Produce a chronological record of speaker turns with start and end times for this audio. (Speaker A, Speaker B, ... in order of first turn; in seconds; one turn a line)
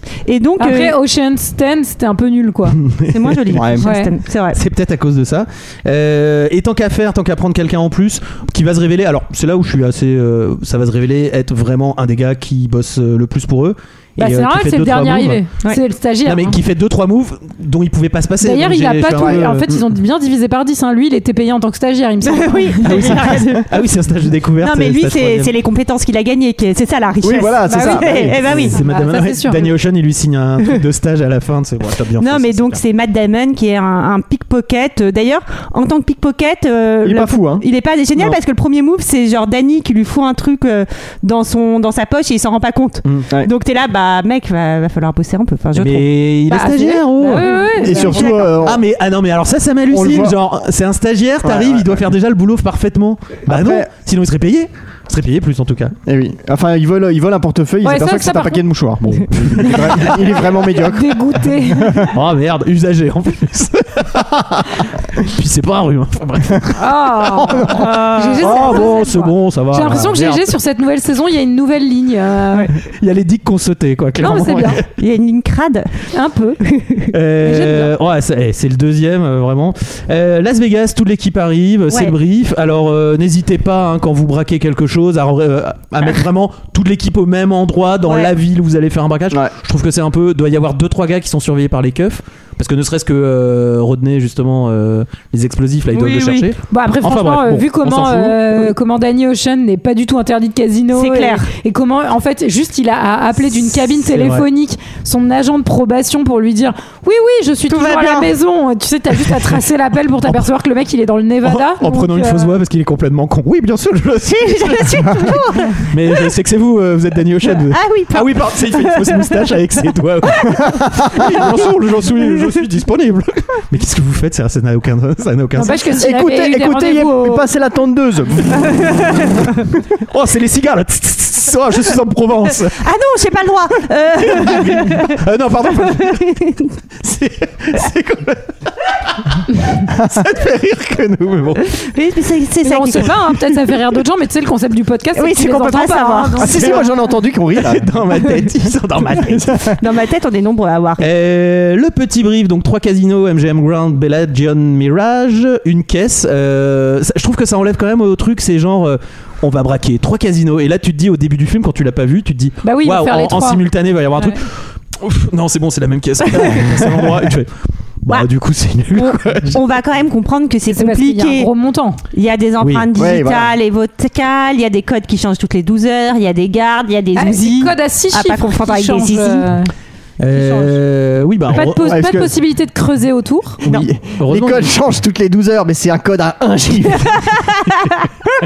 Speaker A: 0.2-0.9
Speaker B: 0.6-2.8
Speaker C: 2.8-3.6
Speaker A: 3.1-4.6
Speaker D: 3.5-3.9
Speaker B: 3.8-4.1
Speaker C: 4.5-15.4
Speaker B: 14.2-16.6
Speaker C: 16.2-19.9
Speaker B: 18.4-23.4
Speaker D: 19.1-19.4
Speaker A: 22.2-23.7
Speaker C: 22.8-25.5
Speaker A: 24.6-28.7
Speaker D: 27.2-28.7
Speaker B: 27.6-29.7
Speaker C: 28.4-32.8
Speaker A: 32.2-46.1
Speaker D: 37.0-37.6
Speaker C: 45.7-47.6
Speaker B: 46.5-48.3
Speaker A: 47.4-48.5
Speaker D: 47.8-48.8
Speaker C: 48.6-55.9
Speaker D: 49.9-50.4
Speaker D: 51.4-52.0
Speaker D: 53.5-53.9
Speaker D: 56.0-62.1
Speaker B: 57.8-58.6
Speaker B: 59.6-62.1
Speaker C: 62.1-67.8
Speaker B: 66.8-72.7
Speaker A: 67.7-68.8
Speaker C: 68.4-70.5
Speaker C: 73.0-74.8
Speaker B: 74.2-74.8
Speaker A: 75.0-75.9
Speaker B: 76.1-76.6
Speaker A: 76.7-77.0
Speaker C: 77.1-98.7
Speaker B: 77.4-77.9
Speaker A: 88.0-88.3
Speaker A: 95.9-96.5
Speaker B: 96.7-112.6
Speaker A: 100.9-101.5
Speaker C: 104.0-104.4
Speaker A: 107.7-108.3
Speaker C: 111.4-115.3
Speaker A: 114.2-116.3
Speaker C: 115.8-125.9
Speaker A: 117.5-119.5
Speaker D: 120.7-121.0
Speaker A: 121.2-121.6
Speaker B: 125.5-127.5
Speaker D: 126.0-128.7
Speaker C: 130.1-132.8
Speaker A: 132.8-136.7
Speaker C: 134.2-136.4
Speaker C: 137.0-141.7
Speaker D: 139.9-140.2
Speaker A: 141.9-143.7
Speaker B: 142.6-147.0
Speaker A: 145.1-146.8
Speaker D: 146.3-147.9
Speaker C: 147.5-149.7
Speaker D: 149.1-149.8
Speaker A: 149.8-151.0
Speaker C: 151.0-167.5
Speaker B: 162.6-163.6
Speaker B: 164.2-164.4
Speaker C: 168.0-169.6
Speaker A: 168.9-171.5
Speaker B: 170.7-172.0
Speaker A: 172.1-179.5
Speaker C: 172.6-172.9
Speaker D: 172.9-173.5
Speaker B: 177.1-179.7
Speaker C: 180.2-182.2
Speaker B: 180.3-180.8
Speaker B: 181.5-183.6
Speaker D: 181.7-182.3
Speaker C: 183.6-184.7
Speaker D: 183.6-187.5
Speaker A: 187.2-188.0